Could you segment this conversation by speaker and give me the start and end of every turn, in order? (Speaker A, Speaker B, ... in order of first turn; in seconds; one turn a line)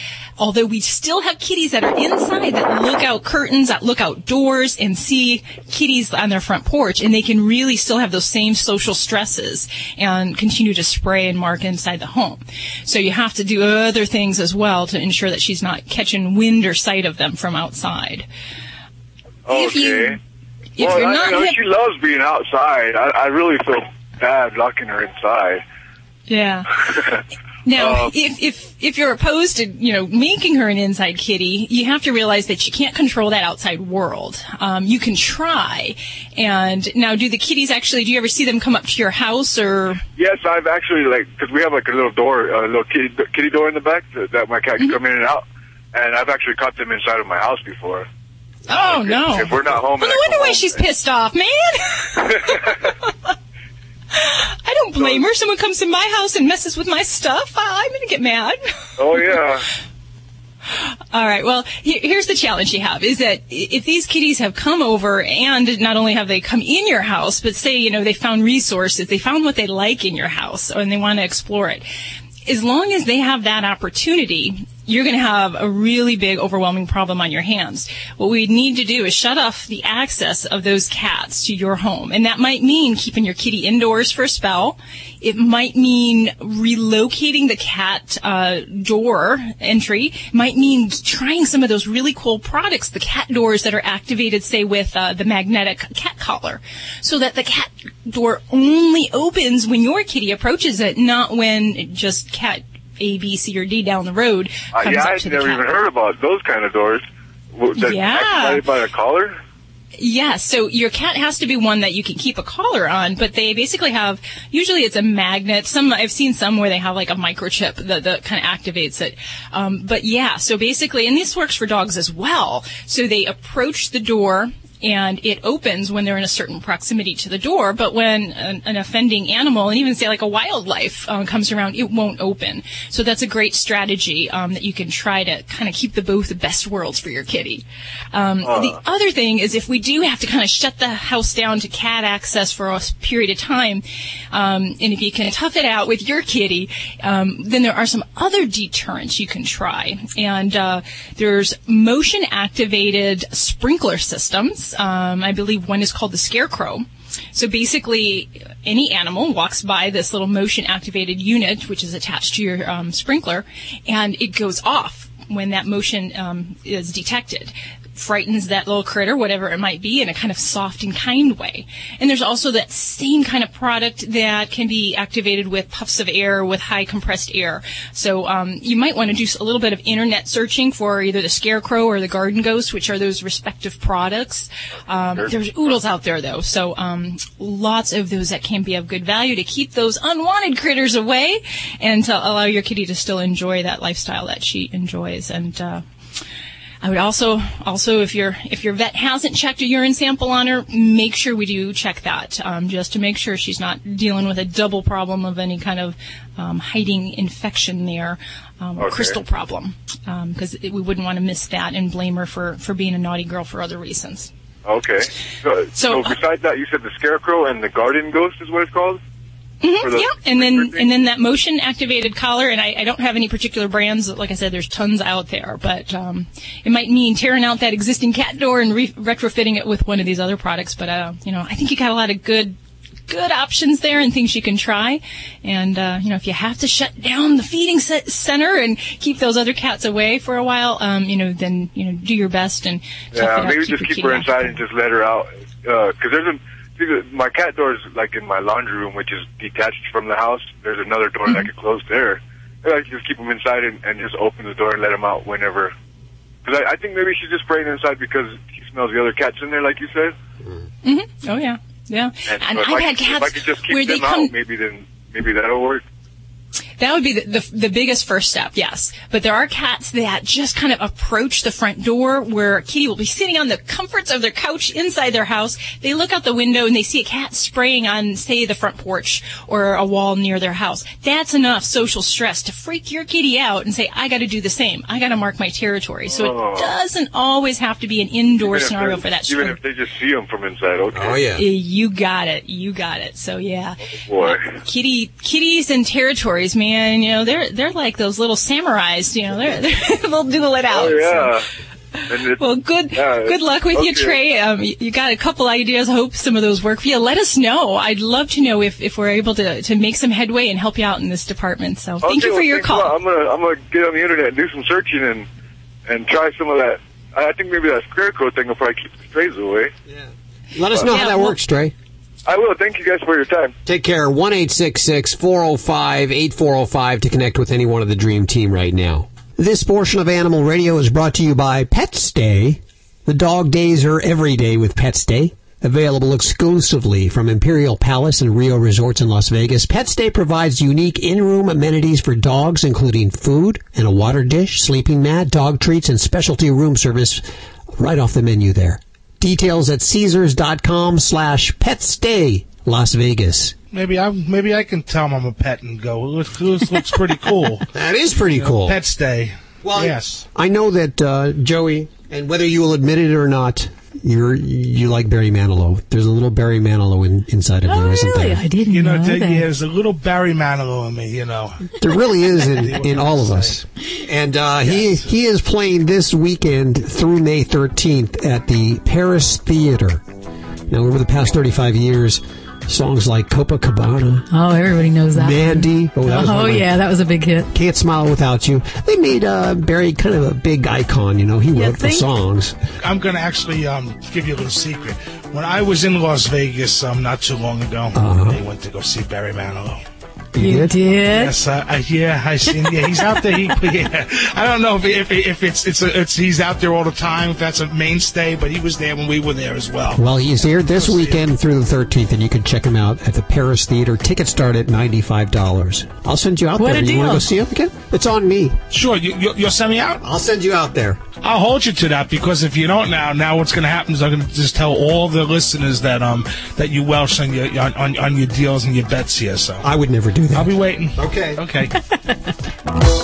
Speaker A: 0.4-18.3
Speaker B: 19.5-20.2
Speaker A: 19.5-20.2
Speaker A: 20.8-21.6
Speaker B: 20.8-25.6
Speaker A: 26.3-26.8
Speaker A: 27.6-40.0
Speaker B: 27.8-28.1
Speaker B: 40.2-48.1
Speaker A: 48.7-53.1
Speaker B: 48.7-50.9
Speaker B: 52.3-52.9
Speaker A: 54.1-58.6
Speaker B: 59.0-59.6
Speaker A: 59.1-59.4
Speaker A: 61.1-71.8
Speaker A: 72.5-105.7
Speaker B: 104.7-109.4
Speaker A: 107.8-108.7
Speaker A: 110.0-195.8
Speaker B: 138.4-138.8
Speaker A: 196.8-214.3
Speaker B: 208.8-209.2
Speaker B: 214.7-219.0
Speaker A: 215.7-216.2
Speaker A: 219.6-232.6
Speaker B: 219.8-220.9
Speaker A: 233.1-244.6
Speaker B: 243.1-255.7
Speaker B: 256.4-260.1
Speaker A: 260.8-264.3
Speaker B: 262.3-265.8
Speaker A: 266.8-289.6
Speaker B: 286.1-286.7
Speaker B: 288.4-291.3
Speaker C: 290.9-291.4
Speaker A: 291.4-301.4
Speaker B: 294.1-294.5
Speaker B: 300.7-301.5
Speaker B: 302.1-302.4
Speaker A: 302.4-313.0
Speaker B: 302.9-304.2
Speaker B: 312.0-315.3
Speaker B: 315.9-319.7
Speaker C: 319.9-321.7
Speaker A: 320.9-321.3
Speaker D: 321.0-321.3
Speaker B: 322.3-323.5
Speaker C: 323.6-347.2
Speaker C: 347.8-353.5
Speaker E: 353.7-357.7
Speaker C: 357.7-358.8
Speaker E: 358.3-360.2
Speaker C: 359.6-368.4
Speaker D: 367.6-369.5
Speaker E: 368.7-373.6
Speaker C: 371.8-380.0
Speaker E: 374.6-375.0
Speaker C: 380.7-384.3
Speaker D: 384.3-387.5
Speaker C: 385.1-386.7
Speaker C: 387.5-392.5
Speaker D: 391.6-392.1
Speaker E: 392.8-399.8
Speaker C: 397.9-398.4
Speaker C: 400.4-400.7
Speaker D: 400.4-401.3
Speaker E: 401.1-411.2
Speaker C: 409.9-418.6
Speaker D: 416.6-417.3
Speaker E: 418.7-420.0
Speaker C: 420.0-421.0
Speaker E: 421.2-429.7
Speaker C: 429.6-431.4
Speaker E: 430.3-431.8